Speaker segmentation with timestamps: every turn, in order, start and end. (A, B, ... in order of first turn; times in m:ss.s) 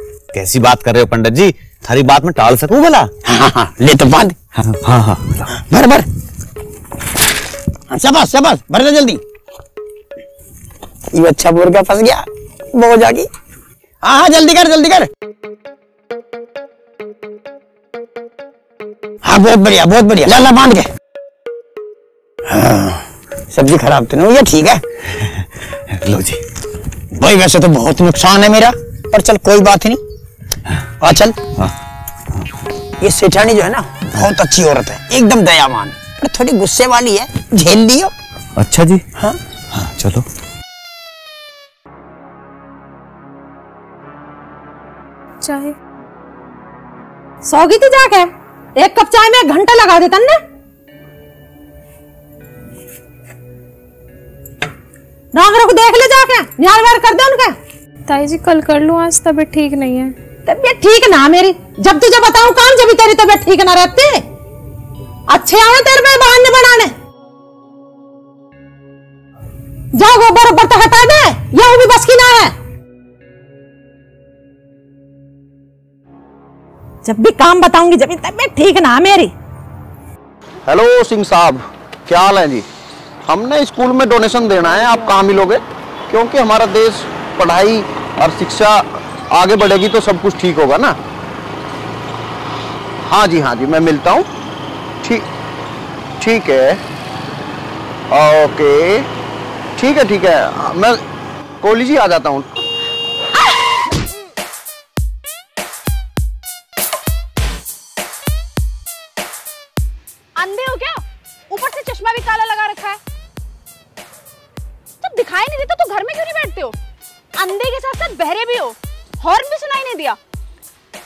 0:00.3-0:03.1 A
0:03.2-0:04.4 B
0:04.7-0:05.4 A
0:05.5-0:06.1 B
0:07.9-0:09.2 B
0:11.1-0:13.3 B
0:14.0-0:15.1 B
0:19.2-0:20.9 B
0:22.5-0:24.8 B
0:25.2-0:26.4 A
0:27.1-0:30.0 B
0:31.0-0:31.4 B
0:33.0-0:38.1 B
0:38.6-0:39.0 A
0:39.7-0:40.2 A
0:45.4-0:45.7 C
0:47.4-0:50.4 D
0:55.3-0:57.6 D
0:58.1-1:00.1 C
1:00.4-1:04.2 D
1:05.3-1:06.9 D
1:09.9-1:12.5 D
1:17.0-1:19.3 D
1:20.6-1:22.6 E
1:23.2-1:31.0 E
1:33.0-1:34.3 E
1:36.2-1:36.8 E
1:38.1-1:39.1 E
1:39.8-1:41.0 E
1:41.6-1:42.5 E
1:50.4-1:53.0 F
1:55.0-1:56.8 F
1:57.4-2:00.2 F